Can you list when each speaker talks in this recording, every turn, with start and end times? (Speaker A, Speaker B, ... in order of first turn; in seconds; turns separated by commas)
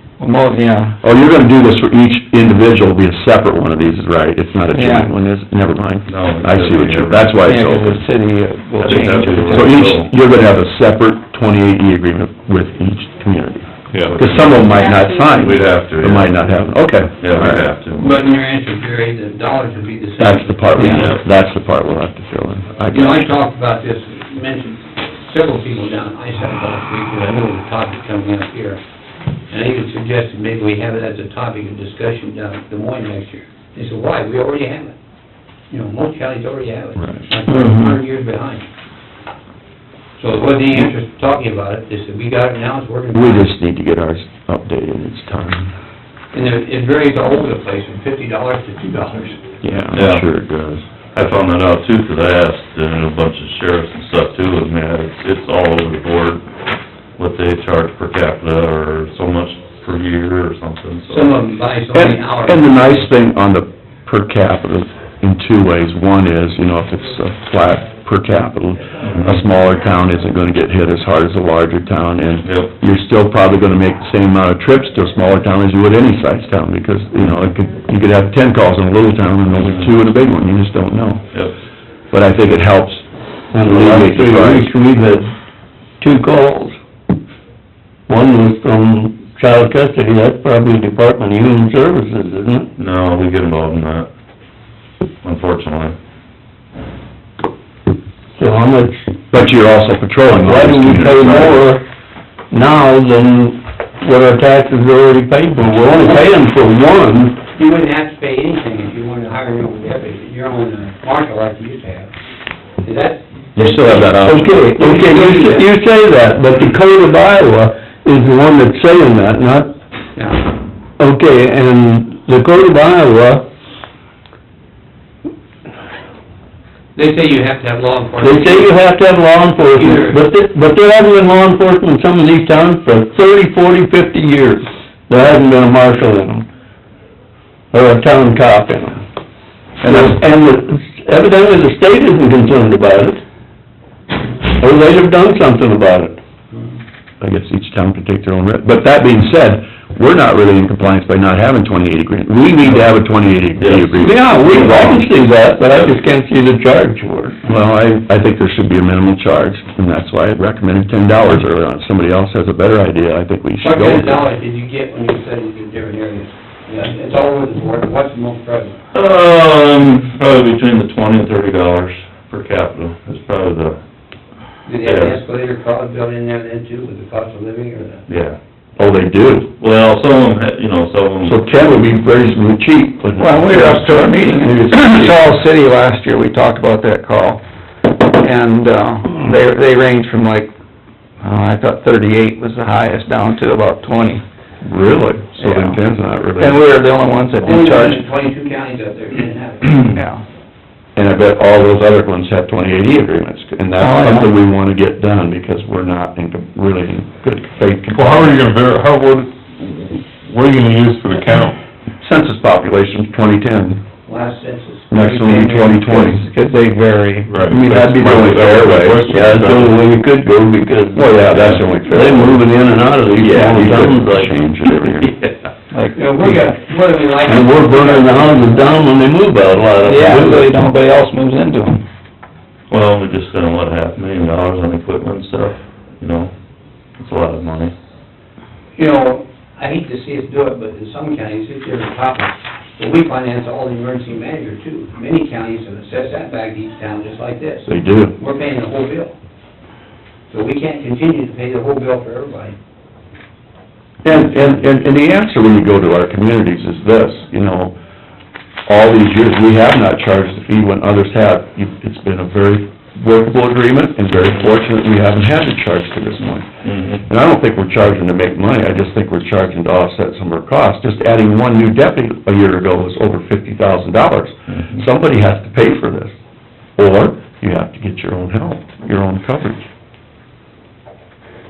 Speaker A: 0.2-0.9, Speaker B: 1.0-8.0, Speaker C: 6.1-7.4, Speaker D: 7.5-9.7, Speaker C: 8.8-10.1, Speaker A: 8.8-9.3, Speaker B: 9.4-17.7, Speaker E: 13.9-14.2, Speaker C: 14.0-16.6, Speaker C: 17.2-18.0, Speaker F: 17.9-21.2, Speaker B: 20.2-23.2, Speaker C: 20.8-21.2, Speaker F: 22.9-28.8, Speaker F: 29.5-34.9, Speaker F: 35.7-38.6, Speaker D: 37.5-37.9, Speaker F: 40.2-43.5, Speaker B: 43.1-45.7, Speaker F: 46.3-49.4, Speaker B: 49.6-50.8, Speaker C: 49.9-50.3, Speaker C: 51.1-56.5, Speaker C: 57.1-61.4, Speaker F: 61.1-63.1, Speaker B: 61.9-81.3, Speaker C: 69.0-69.4, Speaker C: 72.4-72.7, Speaker C: 79.6-79.9, Speaker B: 82.1-83.1, Speaker D: 83.5-85.3, Speaker B: 83.6-84.7, Speaker D: 86.0-86.8, Speaker D: 88.1-92.7, Speaker C: 92.8-94.1, Speaker C: 95.2-96.0, Speaker D: 98.3-99.1, Speaker B: 99.3-101.7, Speaker D: 100.3-101.8, Speaker D: 102.5-107.4, Speaker F: 107.5-112.1, Speaker F: 112.8-115.6, Speaker B: 113.5-115.1, Speaker D: 114.0-119.7, Speaker F: 120.2-120.5, Speaker D: 121.0-123.4, Speaker F: 126.9-128.8, Speaker D: 128.2-136.5, Speaker F: 129.7-130.2, Speaker D: 137.7-139.0, Speaker B: 139.8-140.2, Speaker D: 139.8-143.2, Speaker D: 144.5-146.2, Speaker B: 147.2-155.0, Speaker C: 152.7-152.9, Speaker C: 153.6-155.1, Speaker D: 154.0-157.4, Speaker C: 155.6-155.9, Speaker B: 157.5-164.2, Speaker F: 163.6-168.8, Speaker C: 168.9-173.8, Speaker F: 174.6-178.0, Speaker C: 174.8-175.2, Speaker C: 178.1-178.4, Speaker B: 178.8-179.5, Speaker C: 179.6-181.7, Speaker B: 181.2-185.3, Speaker A: 183.2-184.0, Speaker D: 183.6-185.3, Speaker A: 184.7-187.4, Speaker A: 188.2-190.5, Speaker A: 191.2-194.2, Speaker B: 194.6-196.6, Speaker A: 196.4-198.0, Speaker F: 197.4-200.0, Speaker B: 200.9-208.4, Speaker E: 207.9-211.6, Speaker B: 212.0-213.8, Speaker F: 214.1-215.8, Speaker B: 214.9-216.3, Speaker A: 216.2-217.3, Speaker E: 217.3-219.8, Speaker B: 217.4-219.1, Speaker D: 219.0-224.4, Speaker B: 220.9-225.2, Speaker D: 225.8-226.3, Speaker F: 225.9-228.8, Speaker D: 227.2-231.8, Speaker C: 232.7-236.3, Speaker C: 237.0-237.7, Speaker F: 238.8-249.1, Speaker B: 247.7-248.2, Speaker F: 250.3-252.5, Speaker B: 254.0-257.7, Speaker B: 258.7-266.5, Speaker C: 266.6-267.0, Speaker B: 267.1-276.1, Speaker C: 274.5-274.8, Speaker B: 276.8-279.6